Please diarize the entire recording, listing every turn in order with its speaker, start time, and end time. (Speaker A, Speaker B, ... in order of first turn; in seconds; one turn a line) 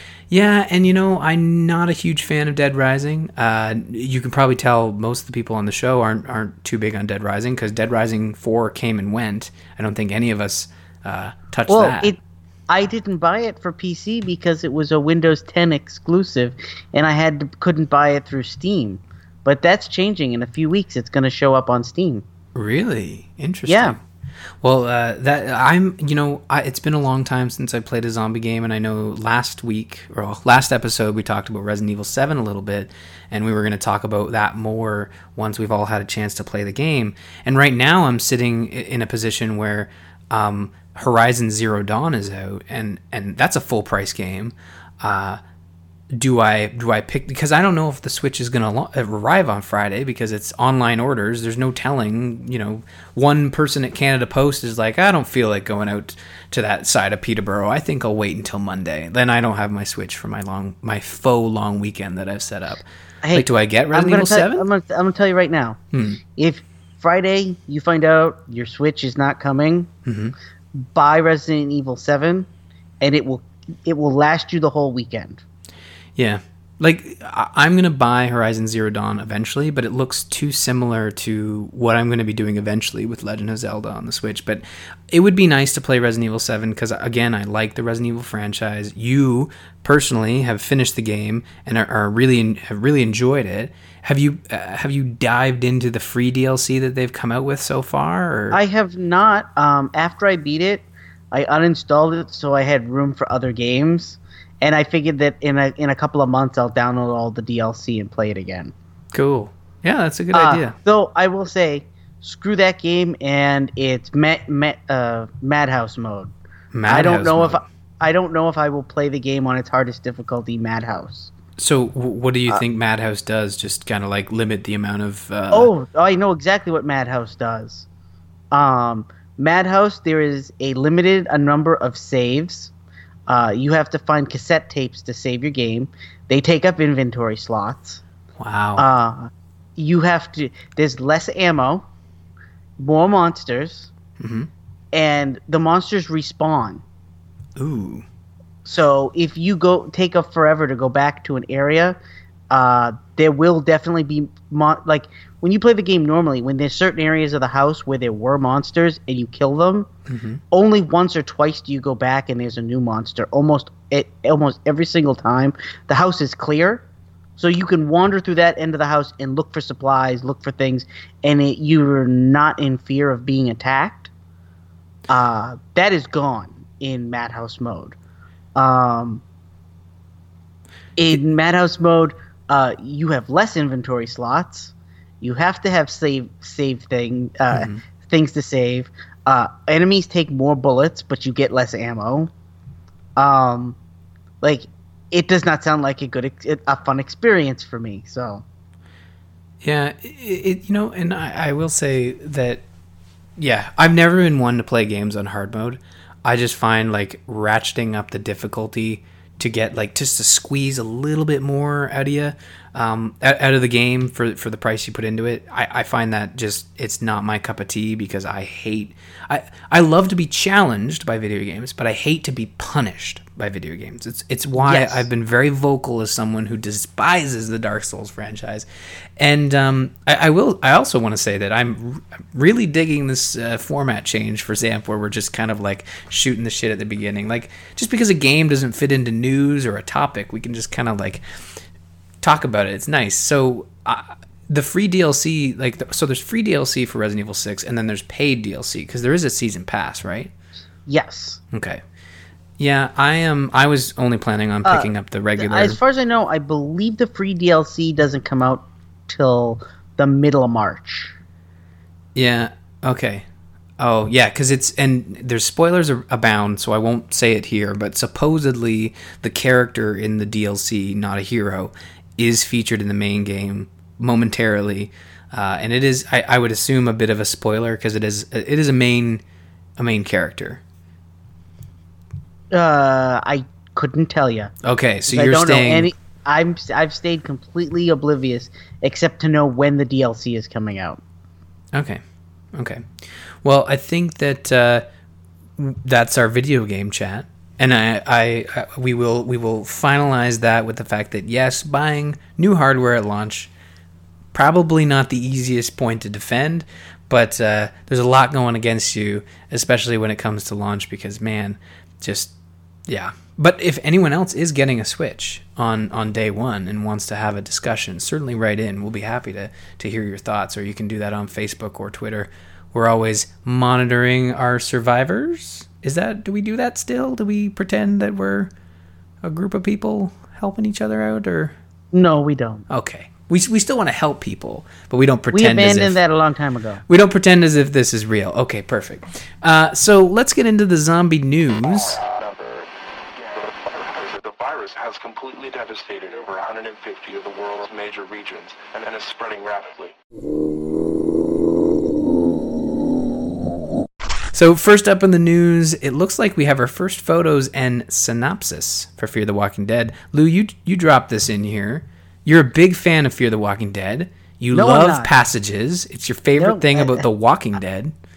Speaker A: 0.3-12.1
Speaker B: 11.7-22.2
Speaker A: 22.5-24.0
Speaker B: 23.7-23.9
Speaker A: 24.6-45.4
Speaker A: 46.1-64.7
Speaker B: 63.2-65.8
Speaker A: 65.9-66.2
Speaker B: 66.3-69.9
Speaker A: 70.0-70.3
Speaker B: 70.8-72.5
Speaker B: 73.0-75.4
Speaker A: 76.2-98.6
Speaker B: 98.5-108.7
Speaker A: 109.1-110.8
Speaker B: 110.3-116.3
Speaker A: 116.7-117.6
Speaker B: 116.9-121.3
Speaker A: 121.6-125.7
Speaker B: 125.5-127.9
Speaker B: 128.5-132.7
Speaker B: 133.3-138.0
Speaker A: 138.4-138.8
Speaker B: 138.8-141.8
Speaker B: 142.8-143.9
Speaker A: 144.2-144.5
Speaker B: 144.9-146.8
Speaker A: 147.6-148.0
Speaker B: 148.6-152.0
Speaker B: 152.5-159.9
Speaker A: 160.1-160.4
Speaker B: 160.5-166.8
Speaker B: 167.4-174.1
Speaker B: 175.1-177.9
Speaker B: 178.5-179.2
Speaker B: 181.0-192.3
Speaker A: 187.5-187.8
Speaker B: 193.2-193.8
Speaker B: 194.4-198.4
Speaker A: 199.6-202.6
Speaker A: 203.4-228.7
Speaker B: 224.6-225.0
Speaker A: 229.2-241.2
Speaker A: 242.2-250.3
Speaker B: 250.9-251.4
Speaker A: 251.5-251.8
Speaker A: 252.6-255.8
Speaker B: 254.6-261.1
Speaker A: 262.1-263.2
Speaker A: 263.8-279.2
Speaker A: 279.8-280.6
Speaker B: 282.5-284.5
Speaker A: 284.6-285.9
Speaker B: 285.1-291.0
Speaker A: 291.7-292.0
Speaker A: 292.5-292.9
Speaker A: 293.4-294.8
Speaker A: 295.6-303.5
Speaker A: 304.3-312.3
Speaker A: 312.9-328.5
Speaker A: 329.2-331.5
Speaker B: 331.9-332.6
Speaker A: 332.7-336.0
Speaker B: 335.3-336.8
Speaker A: 336.9-342.0
Speaker C: 341.7-349.9
Speaker A: 354.3-367.9
Speaker B: 364.5-365.1
Speaker B: 366.4-367.1